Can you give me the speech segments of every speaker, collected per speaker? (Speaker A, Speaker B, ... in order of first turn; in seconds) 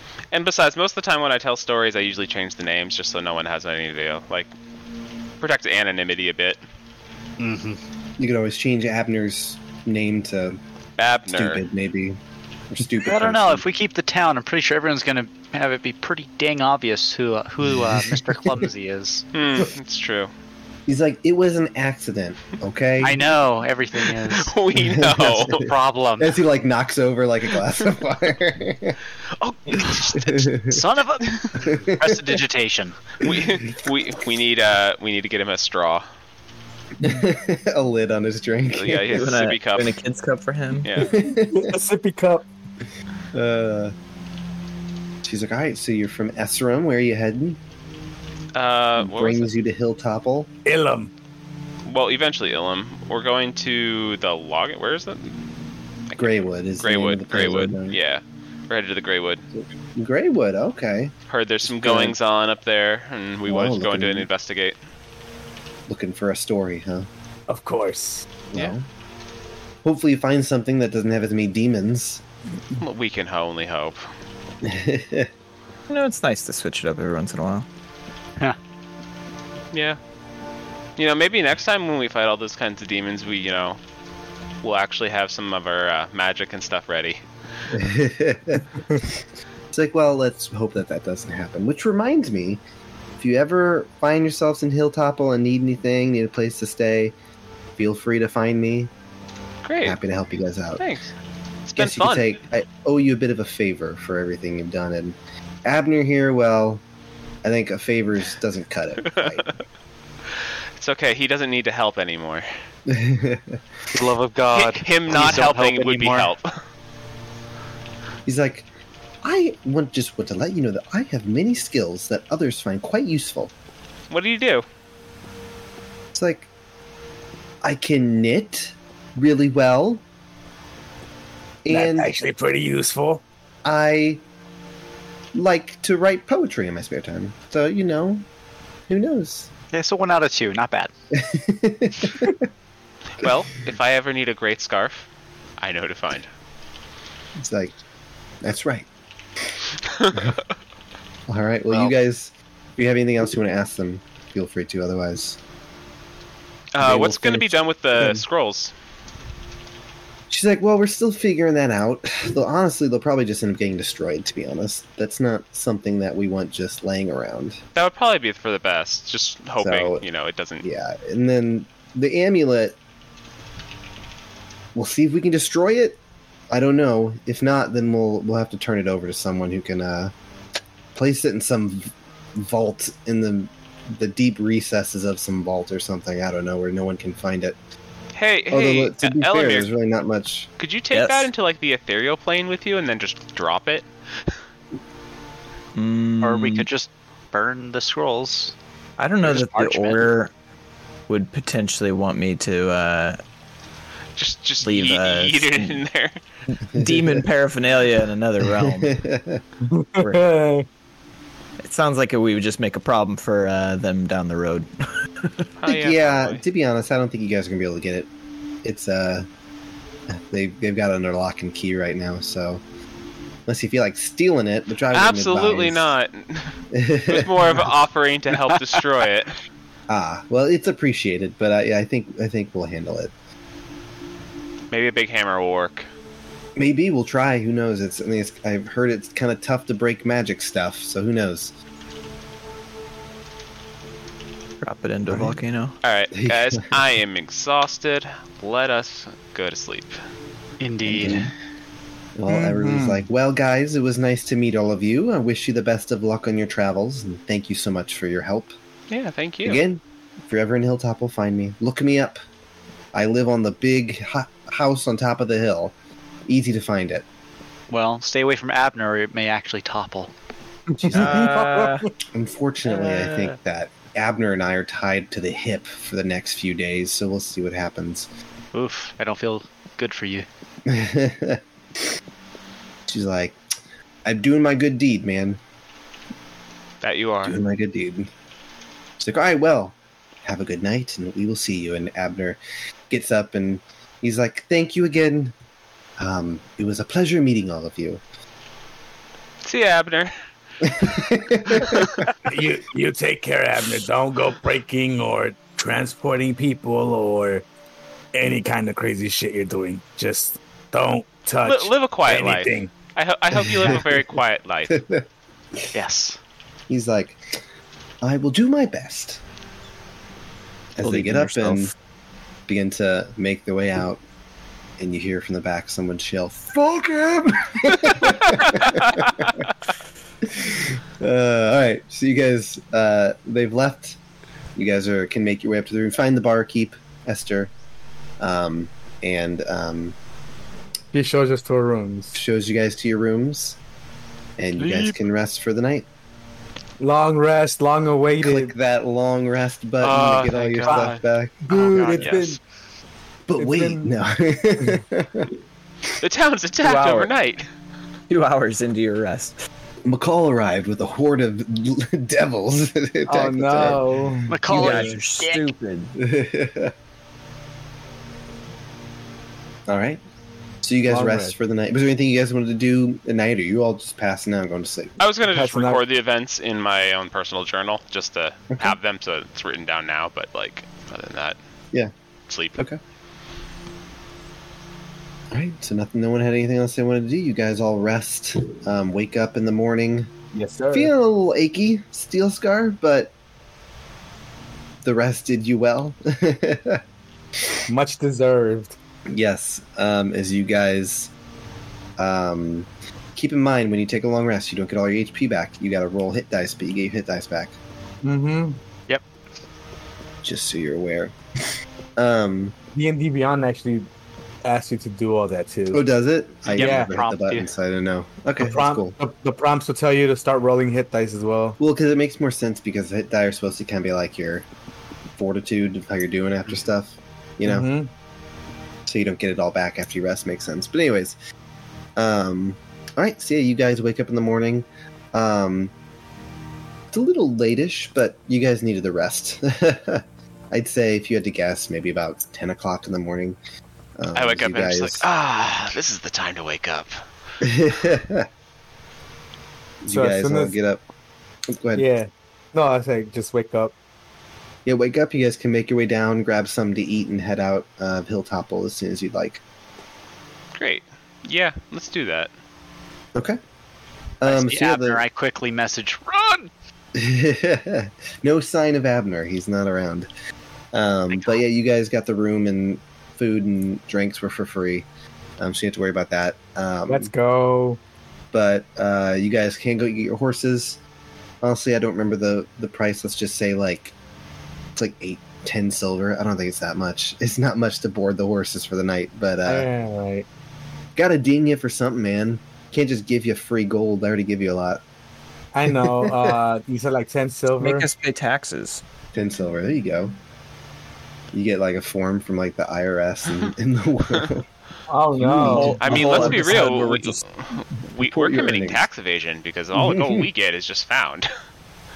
Speaker A: 0.3-4.5, 5.4-6.6, 11.0-11.6, 19.3-20.3, 24.3-25.7, 29.4-30.3, 33.2-36.0, 38.7-40.0, 40.8-41.1, 48.5-49.5, 51.9-55.4, 56.2-59.4, 61.3-64.8, 72.8-74.1, 79.7-80.0, 81.0-83.8, 84.6-87.2, 99.7-100.0, 100.8-101.1, 101.7-102.4, 110.8-112.5, 114.5-116.5, 124.1-124.6, 143.2-145.1, 145.6-146.3, 149.9-150.3, 156.7-158.7, 167.8-170.6, 188.2-189.7, 190.6-193.9, 204.2-206.2, 215.6-216.4, 224.9-229.4, 234.7-235.9, 245.8-250.0, 258.9-259.6, 286.8-287.4, 299.4-300.2, 301.5-302.0, 311.4-314.8, 349.8-350.9, 351.7-352.4, 356.0-357.5, 375.0-381.4, 382.3-382.6, 444.1-447.0, 460.6-462.3, 505.8-511.3
Speaker B: 7.4-7.8, 13.1-19.2, 23.0-24.5, 25.5-26.4, 29.8-33.0, 113.9-116.3, 139.7-140.9, 196.2-198.5, 199.2-200.1, 250.6-251.3, 267.7-270.1, 278.5-280.3, 315.7-316.2, 350.6-351.0, 364.3-365.5, 416.5-417.5, 464.3-466.5
Speaker C: 8.2-10.6, 11.3-12.2, 12.7-13.7, 17.8-18.6, 20.9-23.2, 24.8-29.0, 30.1-30.8, 31.6-32.4, 37.0-39.3, 41.0-41.8, 43.3-43.9, 45.2-47.6, 49.0-50.5, 56.2-58.0, 59.9-61.1, 61.6-62.2, 63.5-64.3, 65.9-67.1, 68.5-68.8, 69.8-72.2, 74.6-75.3, 87.7-92.6, 93.2-97.2, 97.8-98.9, 99.8-100.8, 101.8-106.8, 107.4-109.5, 112.9-113.6, 118.3-118.7, 119.2-123.5, 126.1-126.5, 127.6-130.0, 131.6-132.1, 133.7-134.2, 135.3-138.2, 138.9-139.5, 141.1-142.4, 147.4-147.7, 148.4-148.9, 150.1-150.4, 151.3-155.4, 156.8-158.2, 160.3-167.6, 169.6-170.0, 170.6-172.8, 174.8-176.0, 176.5-180.1, 180.9-187.6, 188.5-190.5, 206.8-207.2, 208.4-209.4, 215.7-218.1, 218.6-219.3, 220.1-222.6, 223.5-225.9, 226.7-227.7, 229.9-233.1, 236.6-241.5, 245.1-245.4, 246.2-246.6, 250.8-251.3, 252.2-258.5, 259.4-262.2, 262.9-265.7, 266.3-267.1, 270.8-271.3, 272.1-278.1, 280.7-281.4, 282.9-283.4, 284.1-285.4, 287.2-288.1, 289.0-292.4, 292.9-295.3, 296.0-298.0, 300.6-301.9, 313.5-313.9, 314.7-315.0, 316.7-317.4, 318.0-319.2, 320.8-321.7, 322.5-324.0, 324.8-329.5, 330.2-334.0, 334.6-337.5, 338.2-340.0, 342.1-343.6, 344.4-345.9, 348.2-352.2, 353.3-355.3, 359.9-363.9, 364.6-365.0, 366.0-366.7, 369.7-370.0, 370.6-375.0, 385.3-390.1, 390.7-393.1, 394.8-396.8, 399.1-401.1, 402.0-407.6, 410.2-411.1, 412.0-412.6, 415.7-419.0, 421.6-424.5, 425.2-427.7, 428.9-431.2, 432.0-435.7, 436.9-443.4, 444.0-445.1, 447.4-448.3, 449.8-450.8, 451.5-451.9, 454.6-459.4, 464.2-465.0, 466.9-470.1, 470.7-474.9, 475.4-477.1, 478.3-480.8, 481.4-483.9, 484.8-489.7, 491.0-494.8, 495.7-496.4, 499.1-500.1, 501.3-504.5, 505.2-506.5, 508.0-508.8, 509.7-510.3
Speaker D: 39.1-40.9, 75.9-77.7, 190.9-191.3, 195.8-196.7, 199.0-200.3, 201.1-203.2, 204.6-205.8, 206.5-208.9, 210.0-210.3, 211.6-215.4, 244.6-245.8, 270.9-271.9, 272.7-273.3, 320.8-321.7, 356.6-357.1, 358.1-359.4, 364.5-365.9, 497.6-498.8, 505.2-507.2
Speaker E: 41.1-42.5, 50.7-51.1, 67.5-68.3, 131.7-133.2, 209.7-210.7, 252.3-253.0, 270.7-271.9, 302.2-307.4, 308.1-312.7, 340.9-342.2, 344.6-344.9, 346.8-348.5, 351.5-352.4, 353.4-353.9, 363.1-364.8, 370.9-371.3, 375.3-375.8, 390.3-390.9, 397.7-398.8, 408.0-408.6, 412.8-413.9, 414.4-415.8, 416.6-416.9, 418.4-421.6, 427.5-427.9, 449.9-450.6, 451.8-453.7, 476.9-477.8, 489.5-490.3, 495.5-497.9, 504.9-506.5